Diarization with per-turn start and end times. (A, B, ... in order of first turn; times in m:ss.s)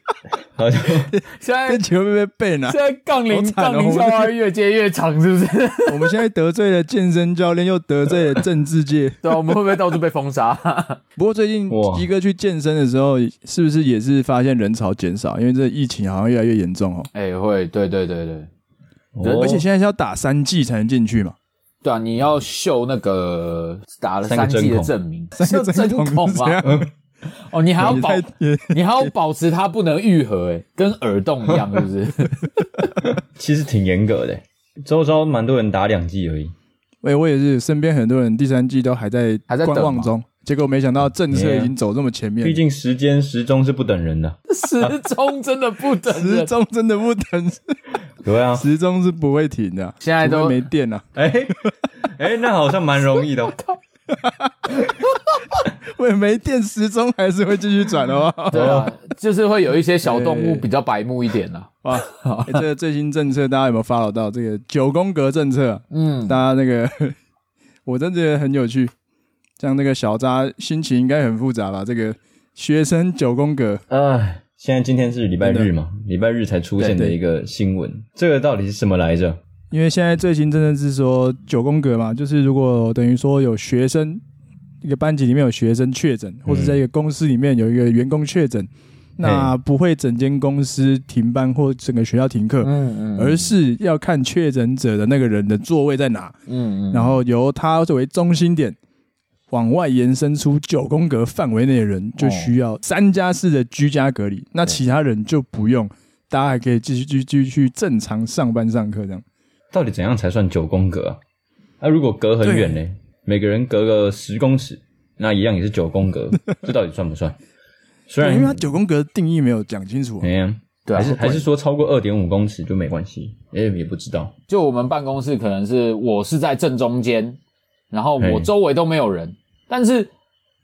0:00.6-0:01.1 A
0:01.1-0:02.8 B
0:01.4-0:01.8 C
0:02.7-0:06.1 C
0:03.3-0:04.3 B
0:05.9-0:09.6 B
0:09.2-0:11.0 C
0:11.2-0:17.1 B
0:11.7-0:12.1 A
0:17.1-0:18.5 C
0:19.1-0:19.7 A
0:19.2-0:19.5 C
0:19.2-0:21.4 B
0:21.8-0:26.7 C
0:24.2-0:24.9 A
0:25.4-0:26.8 B
0:26.6-0:26.9 A
0:27.4-0:32.5 C
0:27.8-0:29.1 B
0:33.0-0:36.5 A
0:37.0-0:42.6 B
0:39.5-0:40.1 C
0:41.3-0:41.7 A
0:42.4-0:44.9 A
0:44.5-0:46.5 C
0:46.1-0:47.8 B
0:48.2-0:48.7 A
0:48.6-0:51.1 B
0:50.0-0:50.6 C
0:51.1-0:53.6 A
0:54.1-0:54.9 B
0:55.6-0:58.9 B
0:58.5-1:02.6 C
0:58.6-0:58.8 A
1:00.0-1:00.6 B
1:01.8-1:07.2 B
1:05.9-1:06.4 C
1:07.9-1:08.9 B
1:09.6-1:13.8 B
1:13.9-1:19.4 A
1:15.4-1:15.7 B
1:16.8-1:17.2 B
1:19.7-1:24.2 B
1:24.8-1:36.3 B
1:26.4-1:26.8 A
1:29.2-1:29.5 A
1:32.6-1:33.6 C
1:36.5-1:37.2 C
1:36.9-1:38.8 B
1:39.5-1:49.2 B
1:42.2-1:42.5 C
1:49.7-1:51.2 A
1:51.8-1:57.4 A
1:52.4-1:52.8 B
1:58.1-1:58.7 A
1:58.2-2:00.3 B
2:00.2-2:04.3 A
2:00.9-2:01.4 C
2:04.5-2:07.4 C
2:07.9-2:10.1 C
2:08.2-2:08.5 A